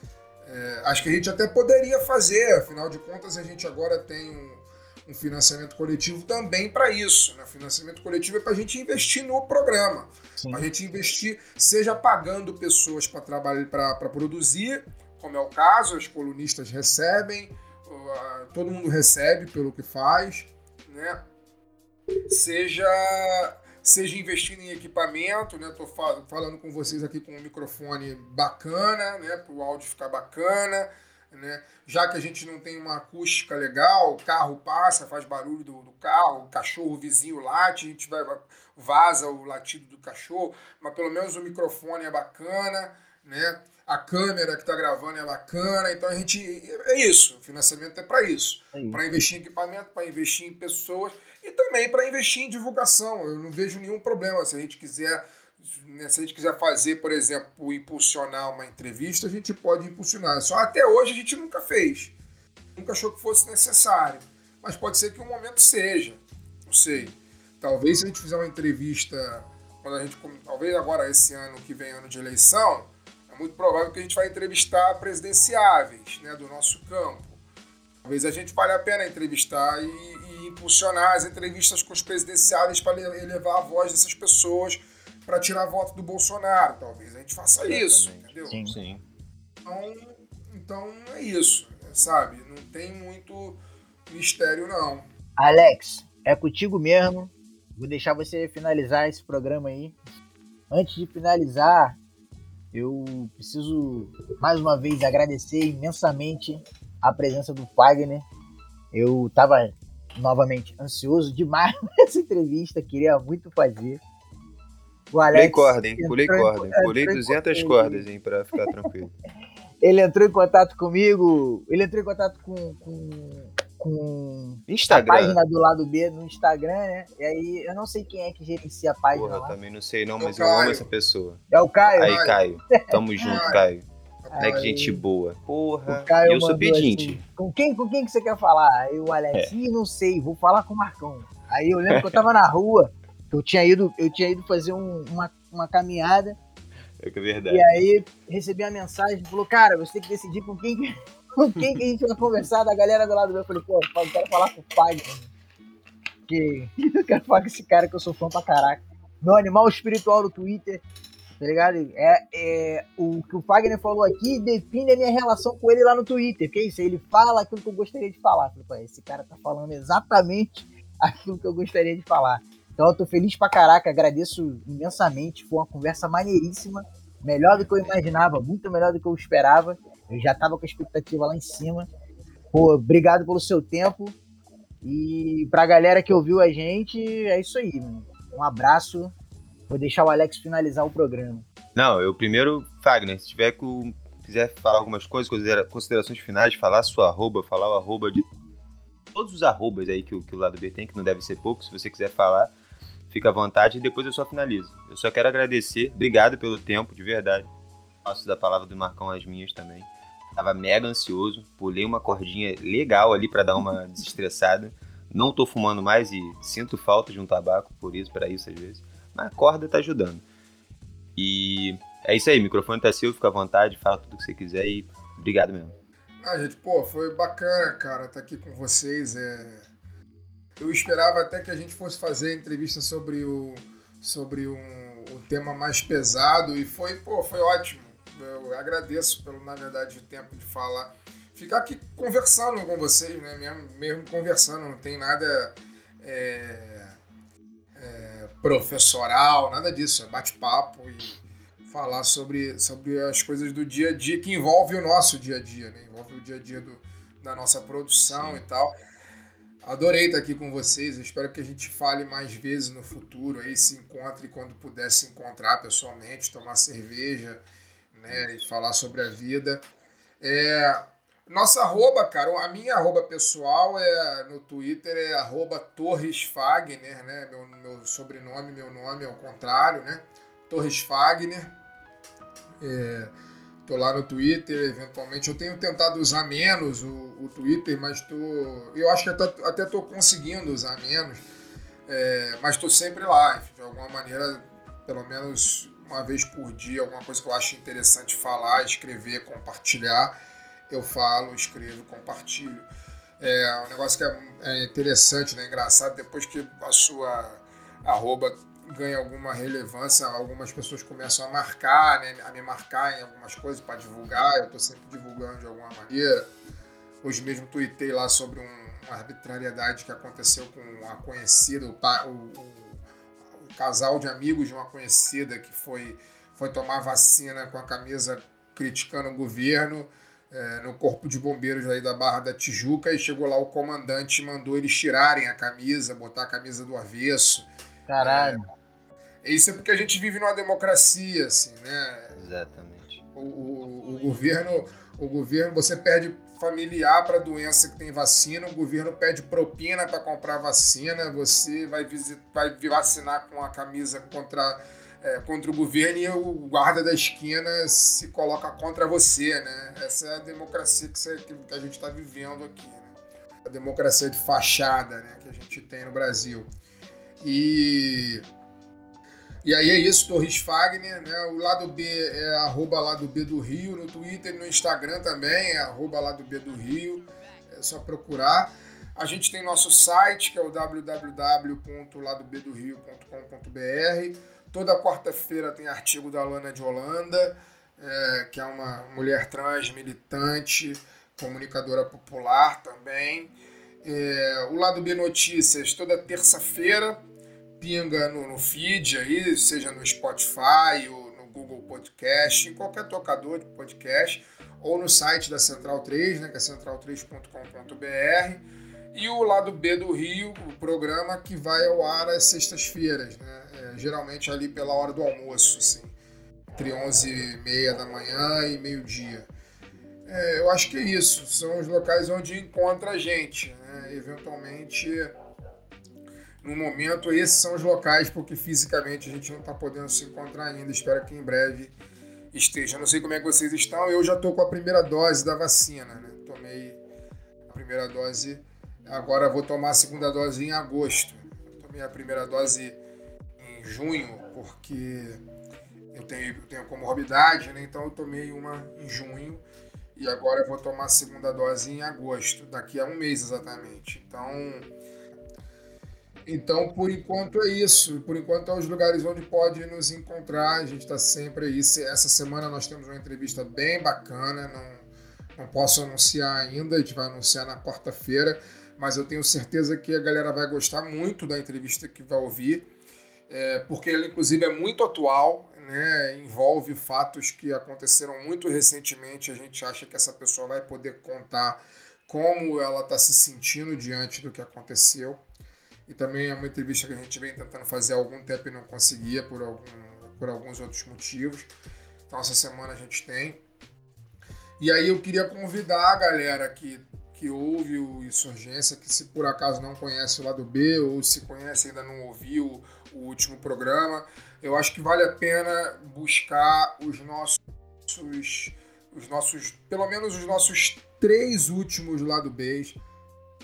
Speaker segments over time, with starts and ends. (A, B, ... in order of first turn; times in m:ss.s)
0:00.4-0:21.2 A
0:10.4-0:10.6 B
0:22.3-1:02.1 A
0:48.7-0:49.0 B
1:02.8-1:17.4 A
1:18.0-1:28.6 A
1:27.6-1:29.0 C
1:28.5-1:28.8 B
1:29.6-1:35.1 A
1:35.4-1:40.0 B
1:40.7-1:42.0 B
1:42.7-1:48.2 B
1:48.9-1:54.0 B
1:55.1-1:58.0 B
1:55.3-1:59.1 C
1:59.8-2:09.5 B
2:04.7-2:05.4 C
2:09.1-2:13.8 C
2:10.2-2:10.9 A
2:11.5-2:13.4 B
2:12.0-2:12.4 A
2:13.2-2:13.6 A
2:14.2-2:14.7 A
2:14.3-2:15.0 B
2:14.4-2:17.2 C
2:15.9-2:26.4 B
2:21.9-2:22.2 C
2:27.0-2:27.7 C
2:27.5-2:35.3 B
2:36.3-2:40.8 B
2:41.4-3:01.9 B
2:57.5-2:57.9 C
3:02.5-3:04.2 B
3:04.8-3:09.1 B
3:09.7-3:11.4 B
3:11.8-3:18.3 C
3:19.1-3:22.5 C
3:23.1-3:27.5 C
3:28.0-3:40.2 C
3:41.2-3:45.8 C
3:46.2-3:49.6 A
3:50.6-4:06.9 A
4:07.8-4:18.7 A
4:18.1-4:18.4 C
4:19.6-4:27.4 A
4:27.9-4:29.6 A
4:30.2-4:41.5 A
4:42.6-4:43.1 A
4:43.6-4:51.2 A
4:51.9-5:00.2 A
5:00.7-5:02.6 A
5:03.2-5:16.3 A
5:17.0-5:22.8 A
5:23.4-5:37.5 A
5:37.9-5:38.4 B
5:38.0-5:38.4 A
5:39.2-5:42.2 A
5:42.2-5:43.0 C
5:43.1-6:06.5 A
6:07.2-6:08.2 A
6:09.4-6:37.0 A
6:37.6-6:55.9 A
6:56.6-6:59.3 A
7:00.1-7:05.1 A
7:06.4-7:11.7 A
7:12.3-7:16.8 A
7:17.5-7:22.8 A
7:23.4-7:25.2 A
7:25.9-7:29.4 A
7:30.0-7:34.7 A
7:36.2-7:52.7 A
7:53.3-8:05.2 A
8:05.9-8:11.5 A
8:12.1-8:13.4 A
8:14.6-8:32.8 A